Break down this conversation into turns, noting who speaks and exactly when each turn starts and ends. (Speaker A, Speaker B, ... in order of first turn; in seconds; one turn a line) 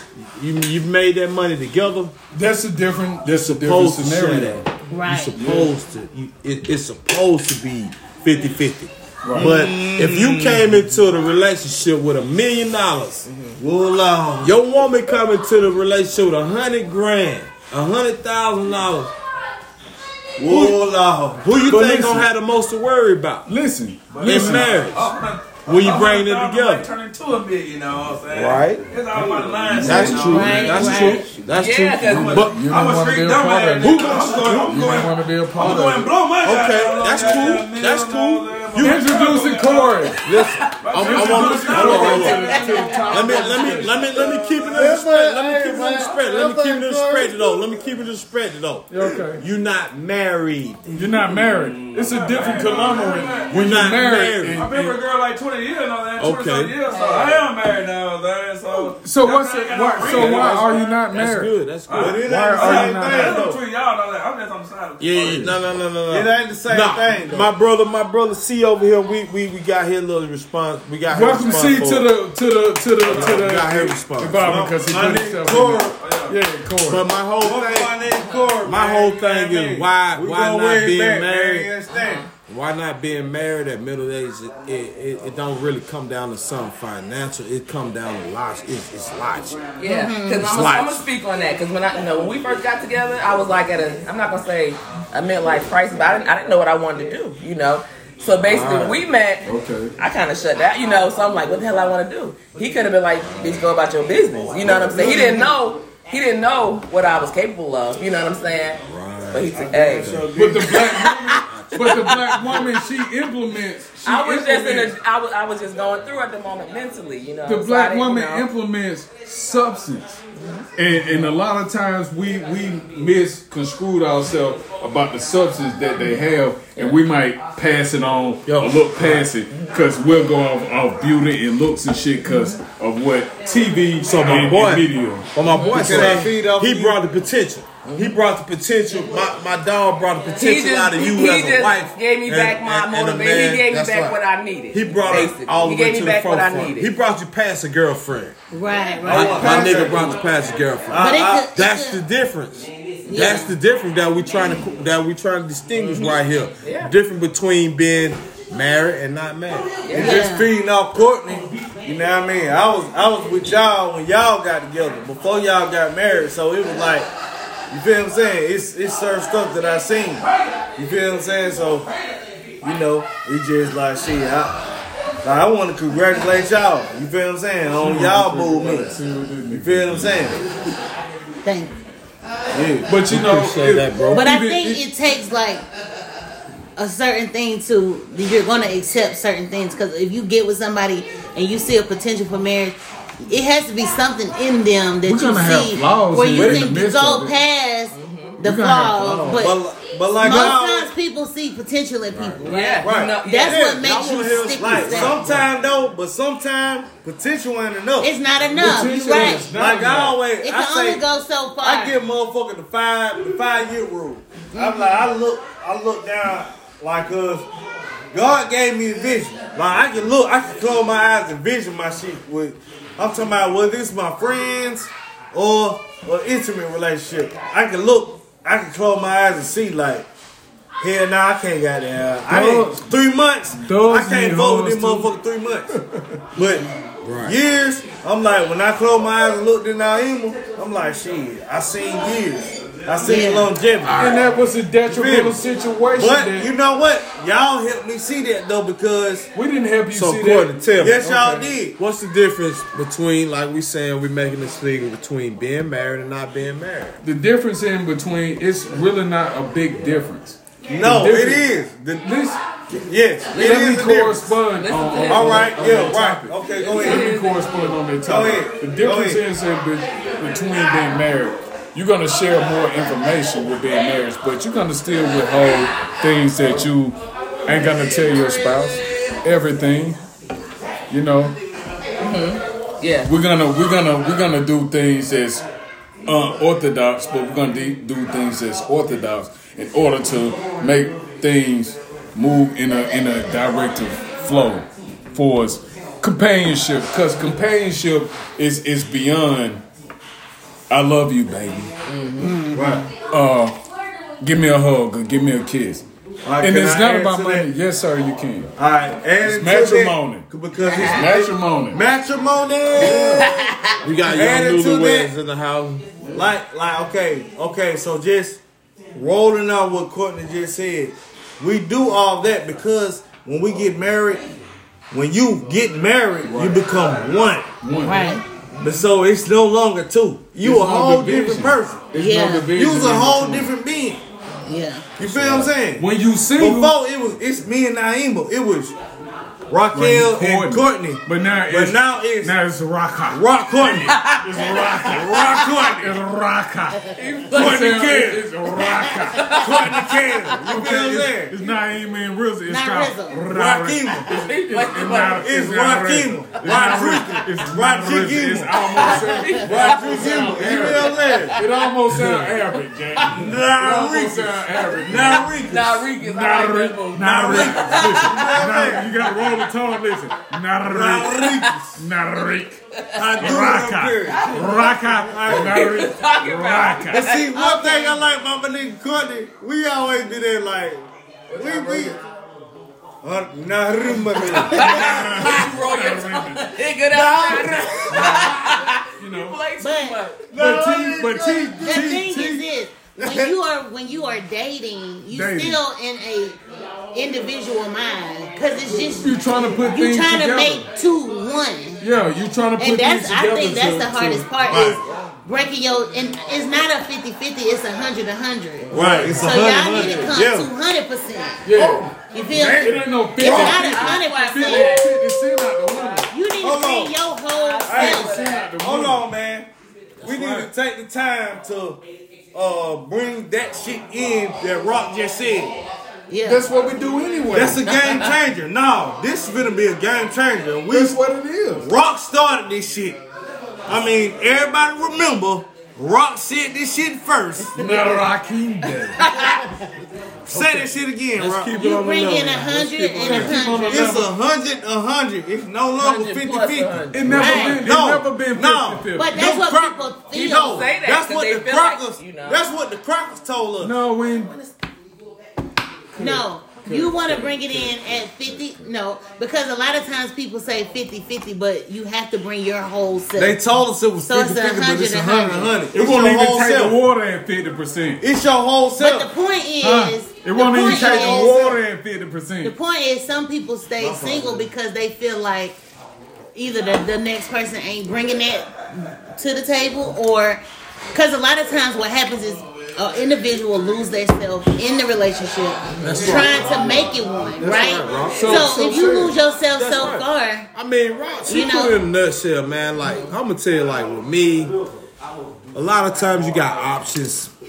Speaker A: 0.3-2.1
Speaker B: 2.3-4.6
Speaker A: 3.3-13.3
Speaker C: 4.9-5.4
Speaker B: 5.3-5.7
Speaker B: 9.2-9.6
Speaker D: 9.3-10.7
Speaker E: 13.3-13.6
Speaker D: 13.6-14.5
Speaker A: 14.4-19.1
Speaker D: 20.4-22.0
Speaker A: 20.5-20.8
Speaker A: 21.4-23.5
Speaker B: 21.7-22.2
Speaker B: 23.5-24.8
Speaker F: 24.1-30.9
Speaker A: 24.2-25.1
Speaker A: 25.6-26.9
Speaker A: 28.3-28.9
Speaker B: 29.2-31.2
Speaker A: 29.8-32.6
Speaker C: 30.2-31.3
Speaker E: 31.5-32.5
Speaker F: 32.1-40.1
Speaker B: 32.3-36.1
Speaker A: 33.8-34.6
Speaker A: 36.4-39.0
Speaker B: 38.8-40.2
Speaker A: 40.2-42.5
Speaker F: 40.8-42.5
Speaker B: 41.0-44.0
Speaker D: 41.7-42.1
Speaker C: 42.0-43.9
Speaker E: 42.3-43.3
Speaker A: 43.1-50.9
Speaker D: 43.9-47.5
Speaker B: 48.9-49.4
Speaker B: 51.0-55.0
Speaker D: 51.1-51.4
Speaker F: 51.3-61.2
Speaker A: 53.5-54.6
Speaker A: 56.2-56.8
Speaker E: 56.9-57.5
Speaker B: 58.7-61.6
Speaker A: 60.0-62.3
Speaker F: 61.9-65.6
Speaker D: 61.9-63.6
Speaker B: 62.1-63.4
Speaker A: 65.0-72.1
Speaker D: 66.1-67.5
Speaker B: 71.1-77.0
Speaker F: 71.3-71.8
Speaker A: 73.0-74.7
Speaker D: 73.1-73.5
Speaker D: 74.4-76.0
Speaker F: 75.9-76.4
Speaker A: 76.9-78.0
Speaker D: 77.4-82.2
Speaker E: 78.2-78.5
Speaker A: 78.6-81.7
Speaker E: 81.9-82.3
Speaker A: 82.5-89.6
Speaker E: 89.8-99.5
Speaker C: 89.9-90.5
Speaker A: 90.4-91.1
Speaker A: 98.4-99.0
Speaker B: 99.4-100.0
Speaker E: 100.0-112.8
Speaker A: 104.6-105.3
Speaker D: 105.0-105.5
Speaker A: 108.8-110.4
Speaker D: 109.6-111.1
Speaker B: 110.4-114.9
Speaker A: 111.5-112.1
Speaker E: 114.1-118.5
Speaker B: 117.5-120.2
Speaker E: 120.4-120.7
Speaker B: 120.8-135.3
Speaker A: 128.5-129.3
Speaker A: 134.0-144.2
Speaker E: 135.5-136.1
Speaker D: 135.7-137.0
Speaker B: 135.9-136.2
Speaker E: 137.9-138.1
Speaker E: 140.4-146.9
Speaker A: 144.7-148.3
Speaker C: 148.5-149.9
Speaker D: 149.0-150.2
Speaker A: 149.1-159.7
Speaker D: 150.9-151.5
Speaker C: 150.9-152.0
Speaker C: 153.1-153.5
Speaker E: 155.9-156.9
Speaker E: 159.9-160.3
Speaker D: 159.9-167.1
Speaker C: 160.0-160.5
Speaker D: 167.7-171.9
Speaker D: 172.6-174.6
Speaker D: 175.2-178.9
Speaker B: 177.8-180.3
Speaker D: 179.5-180.4
Speaker C: 181.4-181.8
Speaker D: 182.5-182.9
Speaker B: 182.9-184.8
Speaker A: 183.1-184.2
Speaker C: 184.1-185.6
Speaker C: 186.8-199.6
Speaker B: 195.0-197.3
Speaker E: 197.9-198.4
Speaker B: 198.4-199.4
Speaker D: 199.1-200.9
Speaker C: 200.2-205.2
Speaker A: 202.1-202.4
Speaker E: 202.4-203.6
Speaker D: 202.8-208.1
Speaker A: 203.8-205.4
Speaker C: 208.0-209.5
Speaker B: 208.5-210.2
Speaker D: 209.1-211.0
Speaker C: 210.4-212.0
Speaker D: 211.6-217.5
Speaker C: 214.5-215.0
Speaker D: 218.1-230.1
Speaker D: 230.8-235.7
Speaker B: 232.3-232.8
Speaker B: 233.5-235.1
Speaker B: 235.7-236.2
Speaker D: 236.3-236.7
Speaker A: 237.0-237.4
Speaker D: 237.2-244.2
Speaker C: 243.0-243.5
Speaker A: 243.8-244.2
Speaker B: 243.9-246.5
Speaker D: 244.9-245.4
Speaker D: 245.9-249.3
Speaker B: 249.3-251.6
Speaker A: 249.9-251.1
Speaker D: 250.8-251.8
Speaker A: 251.8-257.0
Speaker B: 257.0-261.5
Speaker D: 260.7-262.1
Speaker B: 262.0-262.4
Speaker D: 262.7-264.4
Speaker B: 263.3-280.0
Speaker E: 264.6-265.7
Speaker D: 265.1-267.1
Speaker E: 266.5-267.8
Speaker D: 268.0-269.2
Speaker B: 280.9-281.4
Speaker E: 282.0-283.1
Speaker B: 283.0-285.5
Speaker B: 286.1-299.6
Speaker B: 300.7-301.7
Speaker E: 301.9-302.4
Speaker C: 302.2-302.8
Speaker D: 302.5-302.9
Speaker B: 302.9-303.6
Speaker B: 304.2-305.9
Speaker D: 306.2-307.5
Speaker B: 306.4-308.5
Speaker D: 308.6-313.4
Speaker B: 309.2-311.8
Speaker E: 310.6-311.1
Speaker E: 312.8-313.8
Speaker B: 312.8-313.3
Speaker A: 313.8-315.9
Speaker D: 314.1-315.1
Speaker D: 316.1-318.4
Speaker D: 318.9-324.3
Speaker D: 324.9-327.5
Speaker B: 326.2-326.6
Speaker B: 327.6-328.2
Speaker C: 327.8-328.2
Speaker D: 328.6-331.9
Speaker B: 330.4-333.5
Speaker C: 331.9-332.5
Speaker D: 332.5-334.0
Speaker C: 334.5-334.9
Speaker D: 335.0-335.9
Speaker B: 335.0-336.8
Speaker D: 336.4-338.8
Speaker D: 339.5-342.4
Speaker B: 339.7-349.4
Speaker D: 343.1-344.2
Speaker E: 343.7-345.5
Speaker D: 344.7-345.9
Speaker E: 346.9-347.9
Speaker D: 347.3-348.3
Speaker E: 349.0-349.9
Speaker D: 349.3-351.4
Speaker B: 350.4-365.4
Speaker C: 352.5-353.2
Speaker D: 353.3-354.1
Speaker E: 354.1-355.3
Speaker D: 355.2-361.4
Speaker E: 358.8-361.6
Speaker D: 363.1-365.9
Speaker E: 365.4-368.7
Speaker B: 366.0-372.6
Speaker D: 367.0-369.1
Speaker D: 370.7-371.8
Speaker E: 371.2-371.6
Speaker D: 373.0-375.7
Speaker B: 373.2-377.1
Speaker E: 374.1-374.5
Speaker E: 375.3-377.3
Speaker D: 376.9-382.0
Speaker C: 377.3-378.0
Speaker E: 381.3-382.0
Speaker D: 383.0-385.5
Speaker E: 384.1-390.3
Speaker B: 384.5-386.6
Speaker D: 386.9-388.5
Speaker B: 387.9-389.4
Speaker C: 389.6-390.0
Speaker D: 390.3-392.2
Speaker B: 390.3-392.4
Speaker C: 391.6-396.4
Speaker D: 393.0-393.3
Speaker B: 395.1-395.6
Speaker C: 396.9-401.8
Speaker B: 399.0-400.7
Speaker B: 401.8-404.6
Speaker C: 402.6-411.4
Speaker D: 404.5-404.8
Speaker E: 404.6-405.1
Speaker E: 408.6-409.2
Speaker B: 408.7-409.4
Speaker D: 408.7-410.5
Speaker B: 411.4-416.1
Speaker D: 411.5-413.6
Speaker C: 412.1-414.8
Speaker E: 413.2-415.7
Speaker C: 416.1-418.3
Speaker D: 416.4-417.0
Speaker E: 417.3-418.5
Speaker D: 417.7-419.5
Speaker B: 417.7-419.1
Speaker A: 420.0-420.5
Speaker D: 420.0-421.8
Speaker D: 422.3-425.6
Speaker C: 426.1-426.5
Speaker B: 426.2-427.8
Speaker D: 427.3-431.0
Speaker B: 430.7-431.7
Speaker D: 431.6-433.0
Speaker D: 433.7-437.8
Speaker B: 437.5-439.2
Speaker E: 439.0-439.4
Speaker D: 440.3-441.6
Speaker B: 440.3-444.1
Speaker C: 441.6-443.9
Speaker D: 443.0-453.8
Speaker E: 445.8-447.5
Speaker B: 446.9-449.4
Speaker C: 447.1-447.6
Speaker C: 448.9-450.7
Speaker E: 450.1-452.5
Speaker B: 453.6-454.5
Speaker B: 455.9-458.2
Speaker C: 456.0-463.4
Speaker D: 463.2-466.8
Speaker C: 464.0-465.5
Speaker B: 465.7-468.0
Speaker D: 468.0-469.1
Speaker C: 468.8-471.5
Speaker B: 469.6-472.6
Speaker D: 470.6-471.6
Speaker C: 472.4-475.6
Speaker D: 473.8-474.5
Speaker C: 476.4-480.4
Speaker C: 480.9-490.5
Speaker A: 485.8-486.6
Speaker B: 485.8-486.3
Speaker A: 487.4-488.5
Speaker B: 488.1-489.2
Speaker A: 489.5-494.5
Speaker C: 491.3-491.8
Speaker A: 495.5-497.3